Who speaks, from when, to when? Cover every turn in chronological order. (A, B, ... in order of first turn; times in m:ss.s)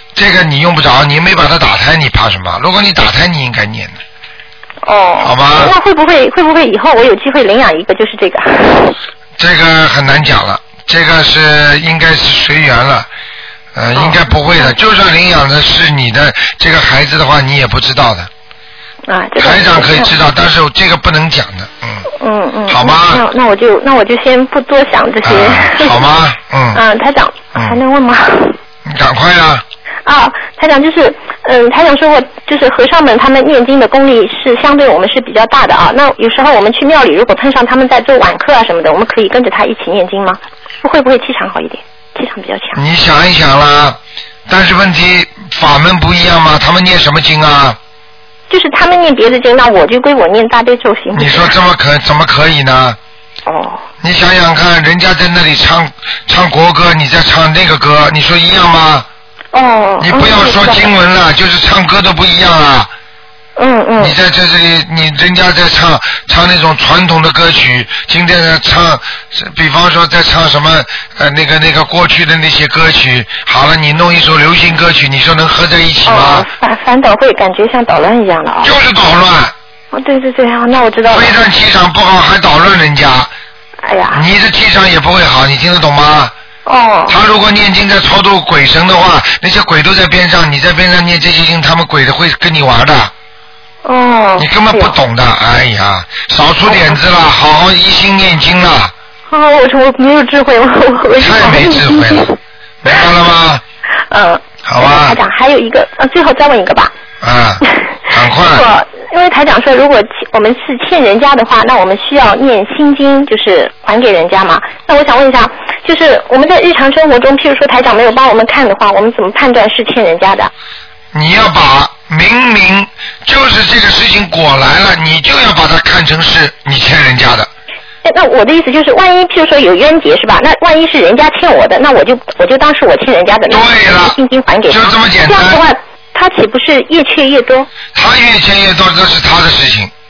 0:00.1-0:04.0 A
0:04.8-0:09.0 B
0:05.2-0:05.7 A
0:09.4-0:13.1 A
0:13.7-0:18.3 A
0:13.9-0:14.8 B
0:19.1-0:20.1 B
0:19.4-0:22.0 A
0:22.2-0:26.0 B
0:22.7-0:23.2 A
0:25.2-0:26.8 A
0:26.7-0:28.6 B
0:27.5-0:27.8 A
0:28.8-0:29.6 A
0:30.0-0:42.8 B
0:42.7-0:47.8 A
0:48.5-0:51.5 B
0:51.1-0:53.0 A
0:53.4-0:53.8 B
0:54.0-0:59.0 A
0:59.5-1:00.9 B
1:00.0-1:02.9 A
1:03.6-1:04.2 B
1:04.0-1:16.4 A
1:16.0-1:18.7 B
1:18.6-1:19.5 A
1:19.9-1:21.4 B
1:21.1-1:23.3 A
1:23.8-1:24.2 B
1:24.1-1:26.3 A
1:26.6-1:27.2 B
1:27.1-1:33.1 A
1:33.8-1:35.0 B
1:34.4-1:38.9 A
1:36.6-1:37.0 B
1:39.3-1:42.4 B
1:41.2-1:42.3 A
1:42.8-1:43.6 A
1:44.1-1:46.9 B
1:44.6-1:45.2 A
1:47.2-1:48.6 A
1:48.4-2:00.5 B
2:01.1-2:07.5 A
2:08.0-2:17.7 B
2:13.5-2:14.2 A
2:14.7-2:15.6 A
2:17.9-2:19.9 A